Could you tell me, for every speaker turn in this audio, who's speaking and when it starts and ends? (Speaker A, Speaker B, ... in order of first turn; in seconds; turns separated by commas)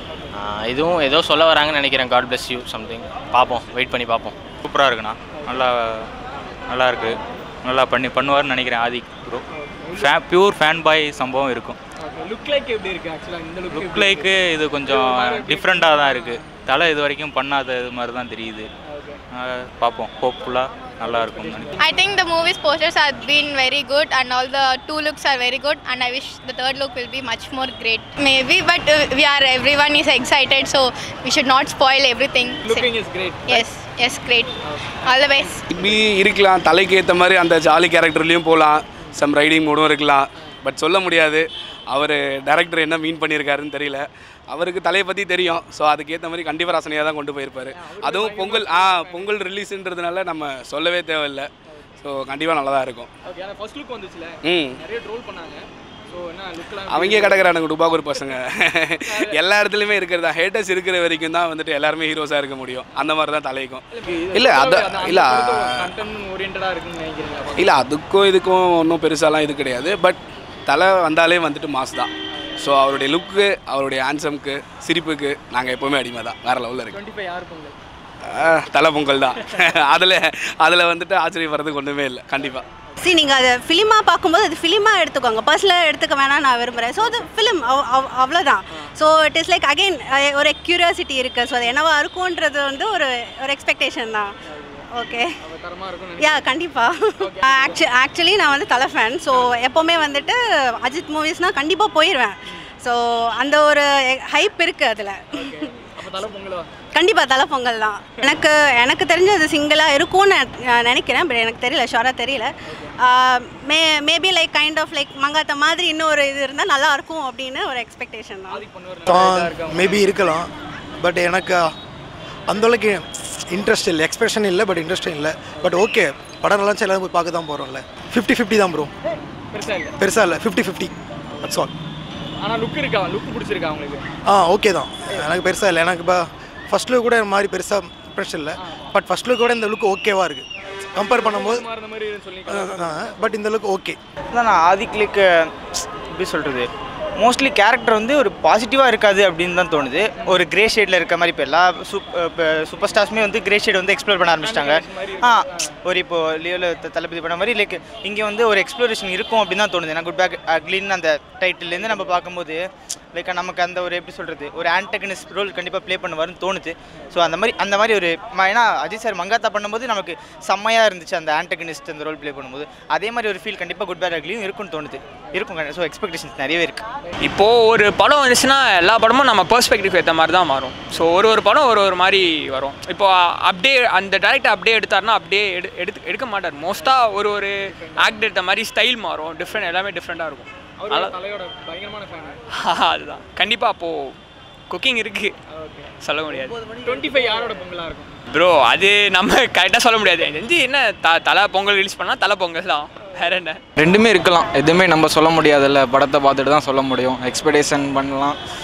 Speaker A: 0.3-4.4, Speaker B: 4.6-6.1, Speaker B: 6.7-9.4, Speaker C: 9.6-10.1, Speaker B: 10.0-11.8, Speaker C: 12.0-16.6, Speaker B: 13.7-18.7, Speaker C: 18.9-19.2, Speaker B: 19.3-21.7, Speaker C: 21.3-21.6, Speaker D: 21.8-32.9, Speaker C: 32.6-33.7, Speaker D: 33.5-35.6, Speaker C: 34.6-35.9, Speaker E: 35.7-51.5, Speaker C: 47.7-49.4, Speaker E: 52.0-53.1, Speaker C: 53.2-57.5, Speaker E: 54.4-54.8, Speaker E: 56.9-65.9, Speaker C: 63.9-67.7, Speaker E: 67.6-77.0, Speaker C: 76.9-77.8, Speaker E: 78.3-82.7, Speaker F: 83.2-94.3, Speaker C: 94.5-94.8, Speaker C: 95.4-96.6, Speaker F: 96.2-102.3, Speaker C: 97.2-98.0, Speaker C: 99.3-99.7, Speaker F: 102.9-105.5, Speaker C: 105.3-106.7, Speaker F: 107.0-112.5, Speaker C: 112.7-112.9, Speaker F: 113.2-118.6, Speaker C: 118.5-120.0, Speaker G: 119.1-121.7, Speaker G: 122.5-128.9, Speaker C: 129.5-130.0, Speaker G: 130.0-130.9, Speaker G: 131.4-131.7, Speaker C: 132.4-134.1, Speaker G: 134.3-140.4, Speaker G: 141.0-141.7, Speaker C: 141.0-142.9, Speaker G: 142.5-144.0, Speaker H: 144.3-176.9, Speaker C: 154.4-155.7, Speaker I: 177.2-191.2, Speaker C: 187.7-188.3, Speaker C: 190.8-192.4, Speaker I: 192.6-194.2, Speaker I: 194.7-195.3, Speaker C: 195.5-195.9, Speaker I: 196.0-196.6, Speaker C: 196.8-198.1, Speaker I: 198.3-203.6, Speaker J: 203.8-208.4